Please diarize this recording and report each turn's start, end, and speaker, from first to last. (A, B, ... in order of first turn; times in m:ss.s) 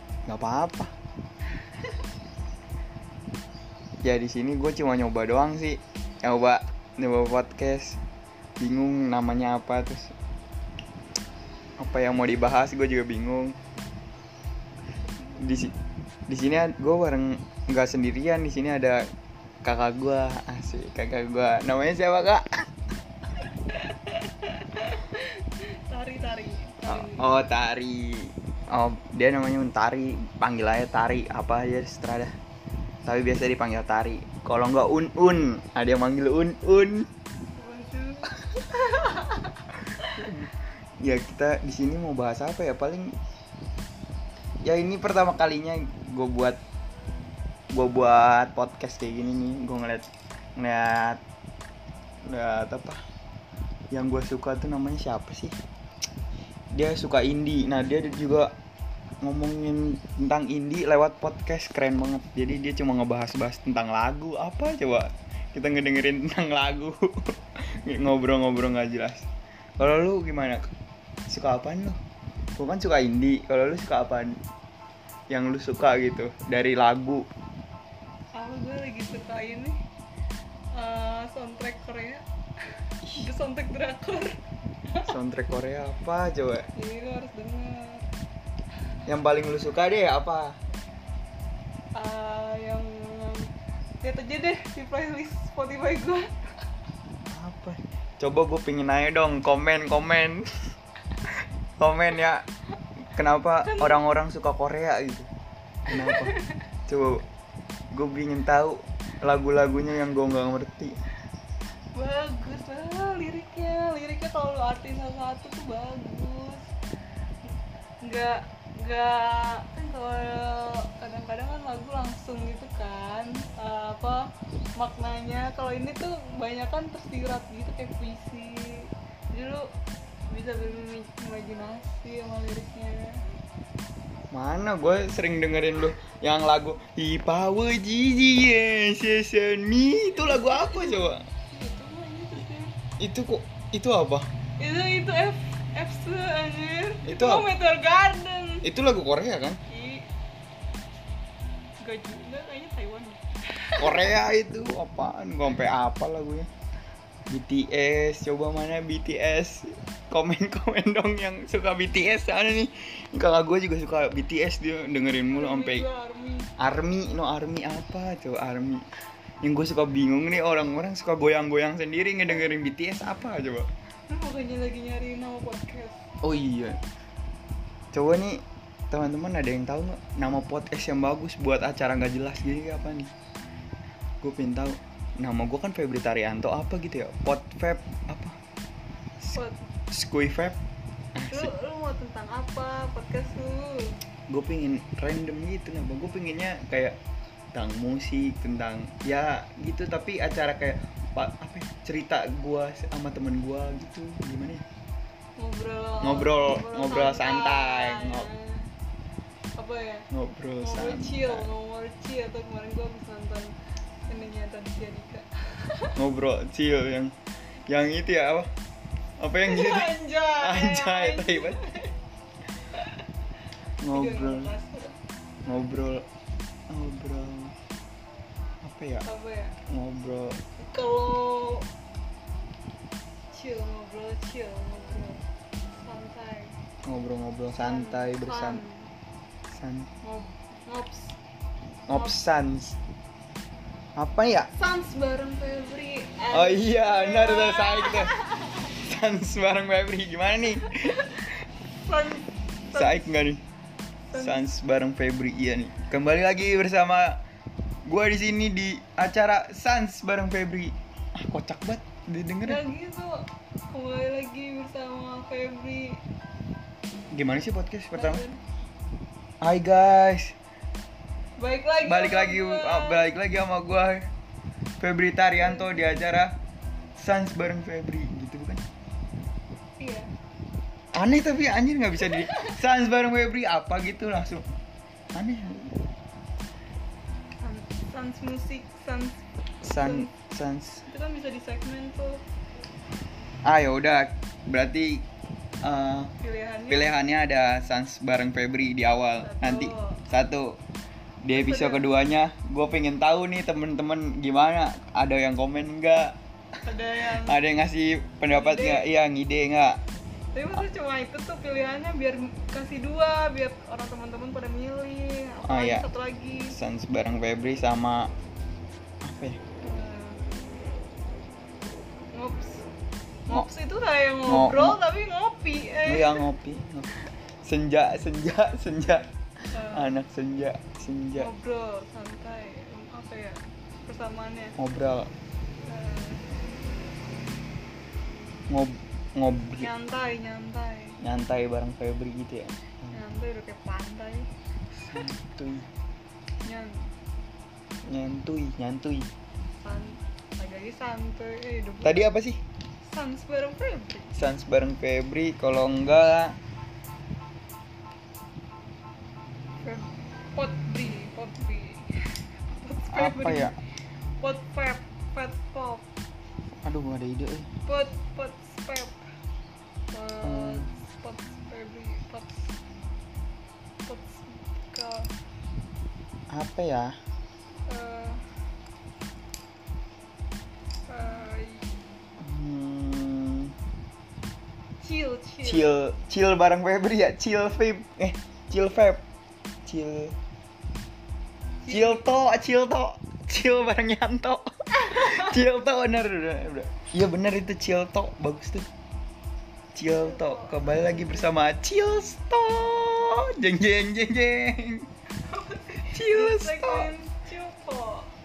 0:00.3-0:00.9 A
0:04.0-0:08.0 A
0:08.6-0:10.1 A
0:11.8-0:13.6 A
0:15.4-0:15.8 A
0:16.3-0:19.0 A
0:19.6-0:22.6 A
0:23.5-0:27.3 B
0:26.9-0:32.3 A
0:33.0-0:37.1 A
0:37.6-0:40.2 B
0:40.2-0:40.5 A
0:41.0-0:43.2 A
0:44.6-0:46.6 A
0:47.7-0:51.2 A
0:52.3-0:53.0 A
0:53.9-0:55.6 A
0:56.7-0:58.5 A
0:59.2-1:09.3 A
1:09.8-1:10.7 A
1:11.3-1:12.0 A
1:12.6-1:14.4 A
1:15.3-1:17.3 A
1:18.3-1:19.8 B
1:20.7-1:22.2 B
1:23.1-1:24.4 B
1:25.0-1:26.7 A
1:26.8-1:28.1 B
1:29.1-1:30.6 A
1:32.0-1:33.5 B
1:34.0-1:36.3 B
1:37.3-1:40.5 A
1:41.8-1:42.5 A
1:43.1-1:45.3 A
1:43.6-1:44.0 B
1:45.9-1:46.3 A
1:45.9-1:46.5 B
1:46.9-1:47.2 A
1:47.9-1:51.0 A
1:51.9-1:56.7 B
1:58.0-2:09.6 B
2:10.3-2:13.2 B
2:14.3-2:21.3 A
2:20.2-2:22.7 B
2:23.0-2:24.3 A
2:24.6-2:28.7 B
2:27.0-2:27.5 A
2:28.6-2:29.6 A
2:29.7-2:30.1 B
2:31.8-2:34.1 B
2:33.8-2:36.5 A
2:37.3-2:45.9 A
2:45.3-2:46.5 B
2:46.6-2:48.9 A
2:49.4-2:53.7 A
2:54.1-2:56.0 B
2:56.2-2:56.8 A
2:57.9-3:03.1 A
3:04.2-3:08.4 A
3:09.3-3:09.6 B
3:09.9-3:10.6 A
3:11.2-3:11.5 A
3:11.3-3:14.0 B
3:14.3-3:17.0 A
3:17.5-3:24.6 A
3:25.4-3:28.7 B
3:26.0-3:28.3 A
3:29.6-3:30.1 B
3:30.1-3:31.5 A
3:30.6-3:33.5 B
3:34.1-3:36.0 B
3:36.0-3:37.1 A
3:37.7-3:38.5 A
3:39.2-3:41.7 A
3:39.4-3:42.0 B
3:43.8-3:44.5 A
3:43.9-3:45.0 B
3:45.5-3:46.0 A
3:46.7-3:47.6 A
3:48.6-3:49.1 A
3:49.0-3:49.6 B
3:49.7-3:50.4 A
3:50.6-3:51.7 B
3:53.3-3:55.2 B
3:55.8-3:56.6 B
3:56.9-3:58.6 A
3:57.6-3:58.9 B
3:59.5-3:59.9 A
4:00.0-4:01.2 B
4:01.9-4:02.8 A
4:01.9-4:02.2 B
4:04.0-4:04.5 A
4:04.5-4:08.7 B
4:06.3-4:11.3 A
4:11.8-4:13.1 B
4:12.7-4:13.4 A
4:14.1-4:14.4 B
4:14.1-4:17.2 A
4:17.9-4:22.6 A
4:22.4-4:23.1 B
4:23.7-4:26.0 B
4:27.1-4:28.2 A
4:28.0-4:28.4 B
4:29.4-4:30.3 A
4:31.4-4:33.0 B
4:31.9-4:34.1 A
4:34.8-4:36.3 A
4:35.3-4:35.9 B
4:37.0-4:38.6 A
4:39.8-4:40.1 B
4:40.9-4:44.4 A
4:42.1-4:42.6 B
4:45.1-4:45.8 A
4:47.4-4:50.1 B
4:49.6-4:50.8 A
4:50.9-4:52.2 B
4:53.4-4:55.0 A
4:55.6-4:56.1 A
4:56.2-4:56.9 B
4:56.7-5:00.6 A
4:59.2-5:00.0 B
5:01.2-5:06.2 A
5:01.3-5:01.8 B
5:06.6-5:07.4 B
5:07.2-5:09.8 A
5:08.3-5:08.9 B
5:10.3-5:16.6 B
5:15.4-5:15.9 A
5:16.5-5:18.1 A
5:19.0-5:19.4 A
5:19.6-5:20.2 B
5:22.1-5:22.6 B
5:23.3-5:26.2 B
5:24.2-5:24.8 A
5:25.9-5:31.3 A
5:29.5-5:29.9 B
5:31.2-5:34.6 B
5:34.6-5:35.1 A
5:35.6-5:36.2 B
5:38.5-5:39.7 A
5:39.6-5:41.0 B
5:41.0-5:42.8 A
5:42.9-5:44.3 B
5:44.8-5:45.7 A
5:46.4-5:46.9 B
5:47.9-5:49.1 A
5:49.6-5:52.1 B
5:51.8-5:52.4 A
5:52.8-5:54.2 B
5:54.2-5:56.4 A
5:59.6-6:03.5 B
6:02.9-6:03.6 A
6:04.2-6:05.9 B
6:06.6-6:07.5 A
6:07.6-6:09.0 B
6:09.9-6:12.5 B
6:10.2-6:10.7 A
6:13.8-6:15.1 B
6:16.3-6:17.0 A
6:17.7-6:18.2 B
6:20.9-6:21.8 B
6:22.2-6:23.6 A
6:24.8-6:25.7 B
6:25.4-6:29.0 A
6:29.7-6:30.1 A
6:31.6-6:32.1 B
6:31.7-6:38.7 A
6:39.8-6:44.9 A
6:40.0-6:41.3 B
6:45.2-6:48.1 B
6:45.8-6:46.9 A